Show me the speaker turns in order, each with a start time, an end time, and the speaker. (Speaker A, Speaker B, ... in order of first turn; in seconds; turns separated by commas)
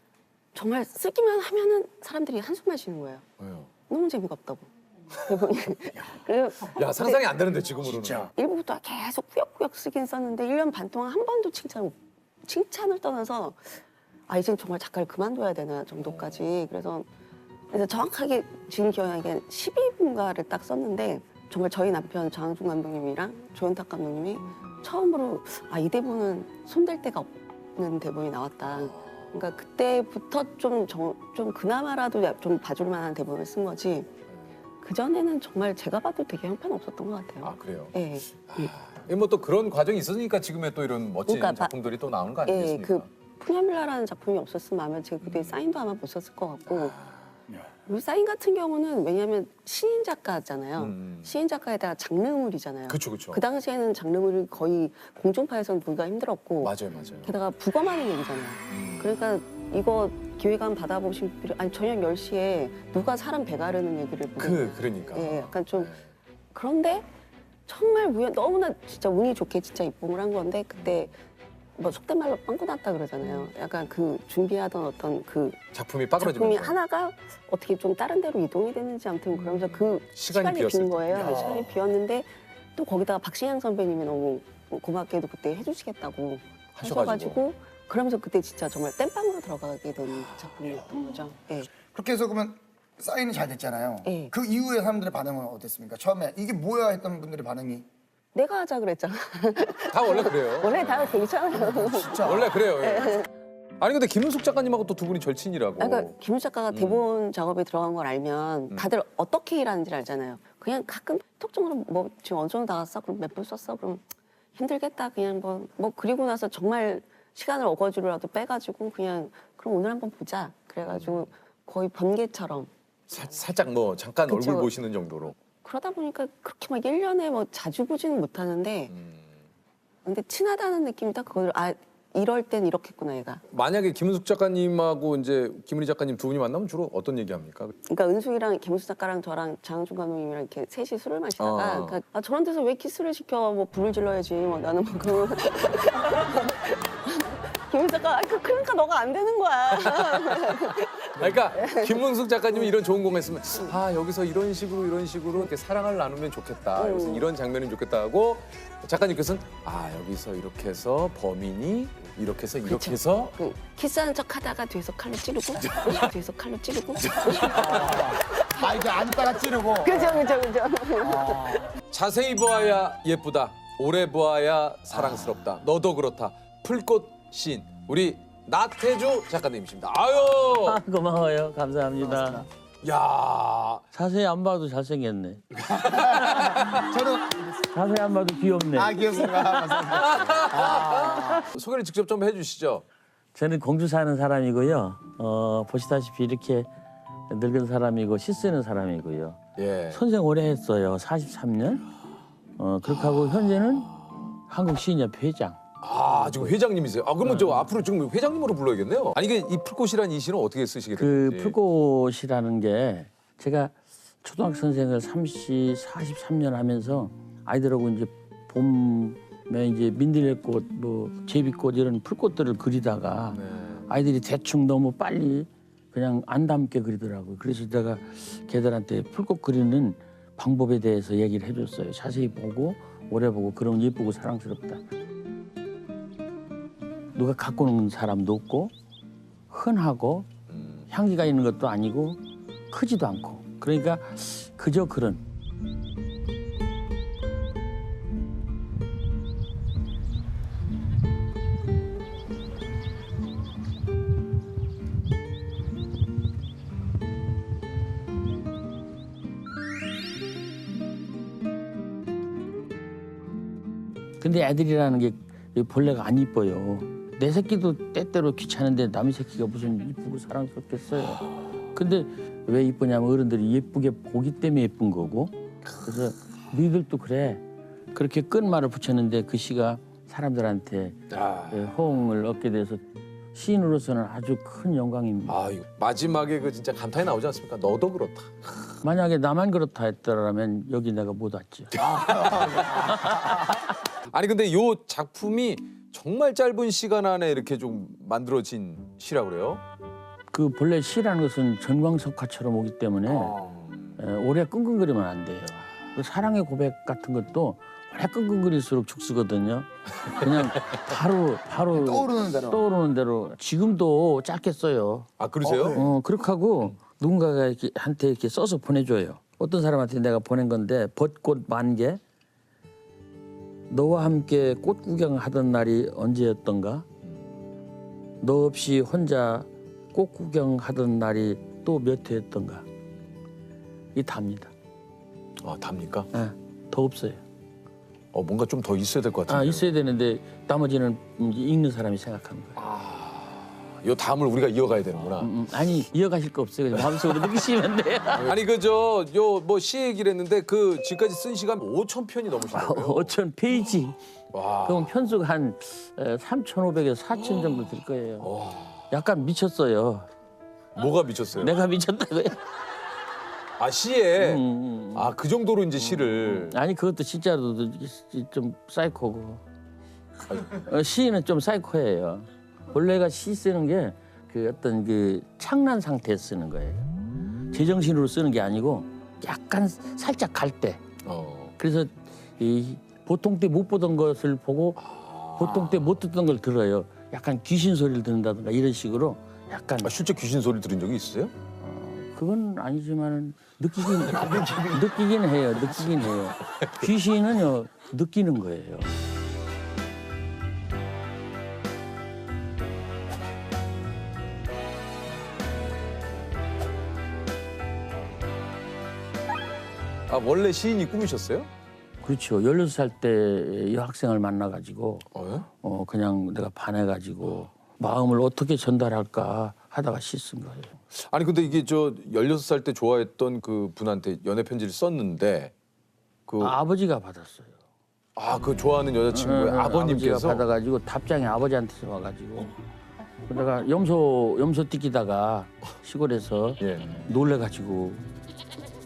Speaker A: 0.5-3.3, Speaker B: 3.4-3.7, Speaker A: 3.9-7.2, Speaker B: 6.7-8.3, Speaker A: 8.2-17.1, Speaker B: 16.0-16.5, Speaker A: 17.7-34.1, Speaker B: 24.4-24.8, Speaker B: 28.7-29.4, Speaker A: 34.8-38.7, Speaker B: 37.4-43.1, Speaker A: 41.3-41.8, Speaker A: 42.5-47.0, Speaker B: 45.2-45.6, Speaker B: 46.7-47.3, Speaker A: 47.9-65.9, Speaker B: 50.8-51.3, Speaker B: 52.9-53.4, Speaker B: 56.6-57.3, Speaker B: 58.7-59.1, Speaker B: 64.4-66.1, Speaker A: 66.5-67.1, Speaker A: 67.7-71.2, Speaker A: 71.8-75.6, Speaker B: 73.2-73.5, Speaker B: 75.7-76.8, Speaker A: 76.2-91.7, Speaker B: 79.3-81.7, Speaker C: 81.2-81.6, Speaker B: 86.7-87.4, Speaker C: 91.7-97.9, Speaker A: 94.0-94.3, Speaker A: 98.3-103.3, Speaker B: 99.9-101.4, Speaker C: 101.6-102.6, Speaker B: 102.2-103.3, Speaker B: 103.8-106.1, Speaker A: 105.8-122.7, Speaker B: 106.7-107.0, Speaker B: 120.8-121.3, Speaker B: 123.1-125.4, Speaker A: 124.3-124.7, Speaker A: 125.6-128.9, Speaker B: 128.9-129.3, Speaker A: 130.1-133.4, Speaker B: 133.5-137.7, Speaker A: 137.9-152.7, Speaker B: 141.4-142.0, Speaker B: 149.8-150.7, Speaker B: 151.2-163.3, Speaker A: 156.8-157.3, Speaker A: 162.7-168.8, Speaker B: 165.6-166.0, Speaker C: 167.4-170.3, Speaker A: 169.8-171.7, Speaker C: 171.0-171.7, Speaker B: 171.9-180.8, Speaker D: 180.6-182.5, Speaker C: 182.0-182.5, Speaker B: 182.8-183.8, Speaker D: 183.9-186.6, Speaker B: 185.7-186.8, Speaker C: 185.7-187.7, Speaker D: 187.7-189.8, Speaker C: 188.8-191.4, Speaker B: 189.9-192.8, Speaker D: 193.3-196.7, Speaker D: 197.3-199.4, Speaker B: 199.6-200.0, Speaker D: 199.9-201.9, Speaker D: 202.6-203.9, Speaker B: 202.9-204.3, Speaker D: 204.5-205.6, Speaker B: 205.8-211.6, Speaker D: 207.2-207.7, Speaker D: 211.0-234.8, Speaker B: 223.3-223.9, Speaker B: 232.1-232.4, Speaker D: 237.2-238.7, Speaker D: 239.5-240.3, Speaker B: 240.5-240.9, Speaker D: 240.9-245.2, Speaker D: 264.2-277.4, Speaker D: 277.9-281.0, Speaker B: 281.1-281.7, Speaker D: 281.5-282.8, Speaker D: 283.3-285.4, Speaker B: 285.3-288.8, Speaker D: 288.8-291.8, Speaker B: 291.7-293.5, Speaker C: 292.1-293.2, Speaker B: 294.1-299.6, Speaker D: 300.3-303.4, Speaker B: 303.1-303.9, Speaker D: 304.0-315.1, Speaker B: 310.2-310.5, Speaker C: 311.7-312.6, Speaker B: 315.2-315.8, Speaker C: 315.4-315.9, Speaker D: 315.6-322.0, Speaker D: 323.7-326.9, Speaker D: 328.2-332.6, Speaker D: 333.9-334.5, Speaker B: 335.4-336.1, Speaker D: 336.1-337.2, Speaker B: 338.1-339.7, Speaker D: 339.3-342.6, Speaker B: 342.6-345.3, Speaker D: 345.2-348.3, Speaker B: 348.2-353.1, Speaker D: 352.5-354.0, Speaker B: 354.3-354.9, Speaker D: 354.6-358.3, Speaker B: 358.2-358.9, Speaker D: 358.9-360.1, Speaker B: 360.8-361.6, Speaker D: 361.4-362.4, Speaker B: 363.6-366.6, Speaker D: 364.2-365.1, Speaker D: 365.8-369.4, Speaker B: 370.3-370.6, Speaker D: 370.4-376.9, Speaker D: 377.5-380.9, Speaker B: 381.0-381.5, Speaker D: 381.6-384.8, Speaker B: 384.8-386.0, Speaker D: 385.4-389.9, Speaker B: 389.8-391.3, Speaker D: 391.6-398.9, Speaker C: 394.1-394.9, Speaker B: 396.0-396.9, Speaker B: 410.1-411.5, Speaker D: 412.0-415.1, Speaker B: 415.1-415.5, Speaker D: 415.6-420.8, Speaker B: 420.9-425.5, Speaker B: 426.3-426.6, Speaker D: 426.4-427.6, Speaker B: 428.2-430.4, Speaker D: 429.1-432.5, Speaker D: 433.3-438.0, Speaker B: 436.6-437.1